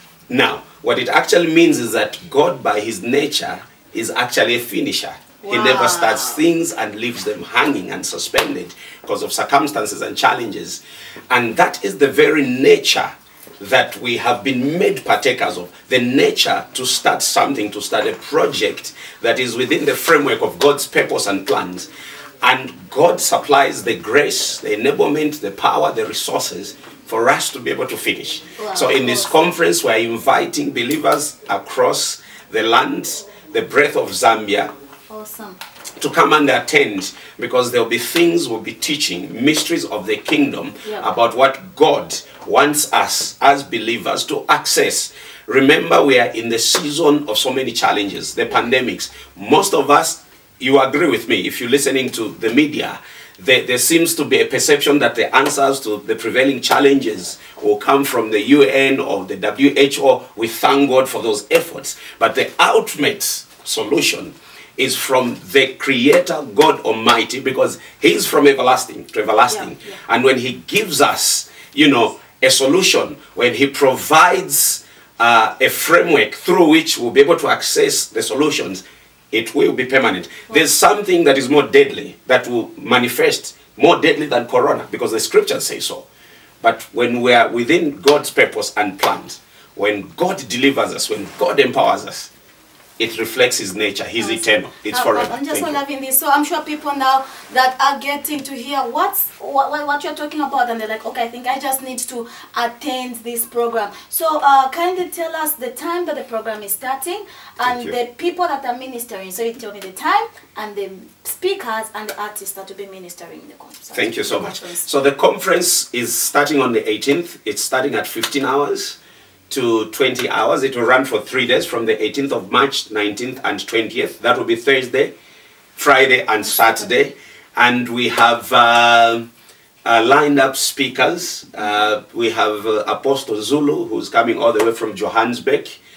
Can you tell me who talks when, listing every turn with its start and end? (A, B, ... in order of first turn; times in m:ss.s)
0:00.3-0:21.9 A
0:05.4-0:06.4 B
0:22.4-0:34.7 A
0:28.6-0:29.4 B
0:35.1-0:35.6 B
0:36.0-1:26.0 A
0:40.8-0:41.1 B
1:09.5-1:10.0 B
1:26.6-1:32.3 A
1:33.0-1:35.8 A
1:34.2-1:54.9 B
1:47.6-1:48.0 A
1:53.9-1:59.0 A
1:59.5-2:05.1 A
2:05.8-2:09.3 A
2:09.8-2:15.8 A